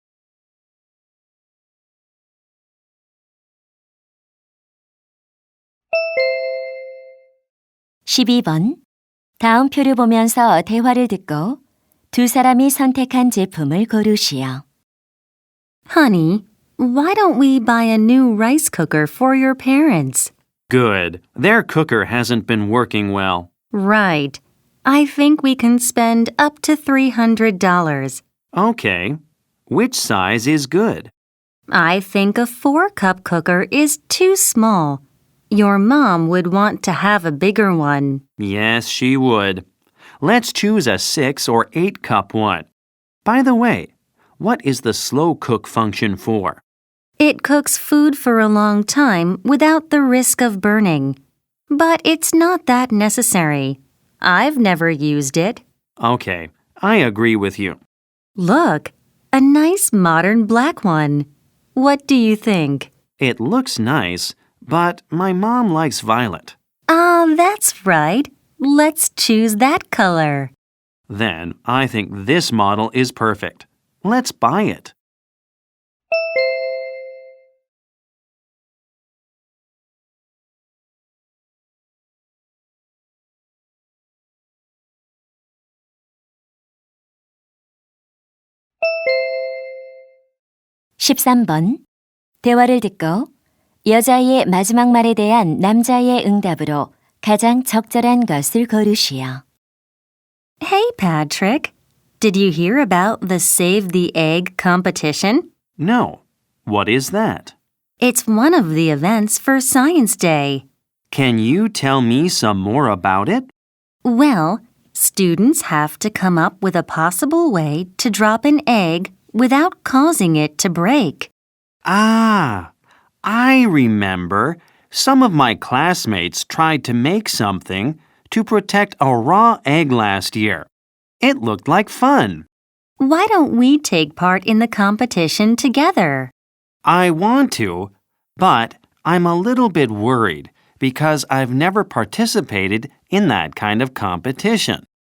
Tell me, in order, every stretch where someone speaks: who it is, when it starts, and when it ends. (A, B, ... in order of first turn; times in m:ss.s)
0:08.0-0:08.8 A
0:09.4-0:11.6 A
0:12.1-0:14.6 A
0:15.9-0:20.3 B
0:20.7-0:23.5 C
0:23.7-0:28.2 B
0:28.5-0:31.1 C
0:31.7-0:38.2 B
0:38.4-0:39.6 C
0:40.2-0:42.7 C
0:43.2-0:46.6 C
0:47.2-0:51.2 B
0:51.7-0:55.6 B
0:56.0-0:57.8 C
0:58.4-1:02.9 B
1:03.2-1:06.6 C
1:06.9-1:10.5 B
1:11.1-1:14.9 C
1:31.0-1:31.8 A
1:32.4-1:33.3 A
1:33.8-1:39.4 A
1:40.6-1:45.4 B
1:45.8-1:47.5 C
1:48.0-1:50.6 B
1:51.1-1:53.5 C
1:54.0-2:01.3 B
2:01.8-2:02.7 C
2:03.2-2:10.7 C
2:11.2-2:12.5 C
2:13.0-2:16.3 B
2:16.8-2:24.8 C